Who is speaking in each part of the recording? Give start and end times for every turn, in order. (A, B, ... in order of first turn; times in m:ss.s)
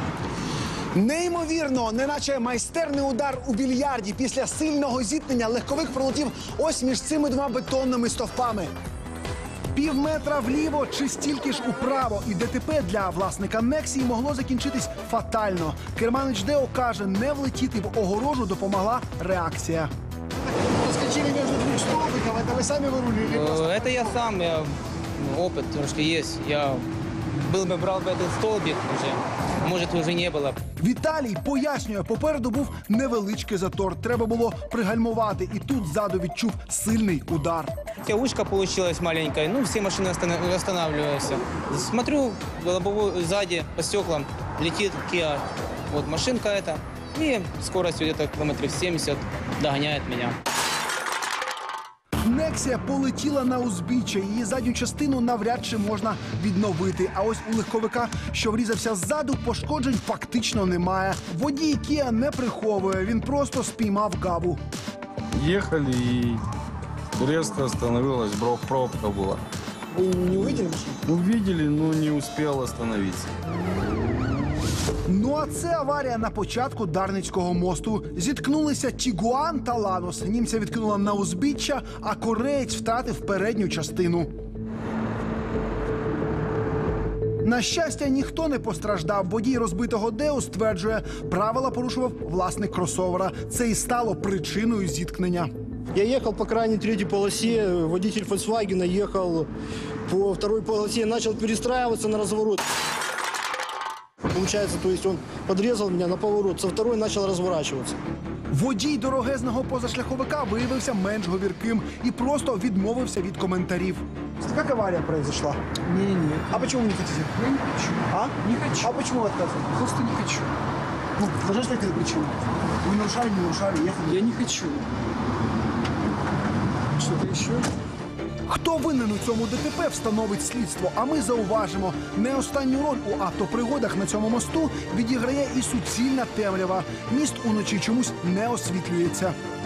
0:00.9-0:08.7 A
0:09.7-0:19.9 A
0:20.6-0:24.0 A
0:23.2-0:30.6 B
0:30.8-0:37.7 A
0:38.0-0:50.4 B
0:52.2-1:04.6 A
1:05.4-1:06.4 C
1:07.2-1:09.4 C
1:10.3-1:10.9 D
1:11.0-1:13.3 C
1:15.1-1:24.3 A
1:27.4-1:35.5 A
1:35.9-1:39.5 D
1:40.1-1:42.6 D
1:44.3-1:48.0 D
1:48.5-1:57.5 A
1:58.1-2:00.0 A
1:58.5-1:58.8 E
1:59.9-2:00.5 E
2:01.2-2:04.5 A
2:04.2-2:04.8 E
2:07.0-2:07.6 E
2:08.5-2:19.3 A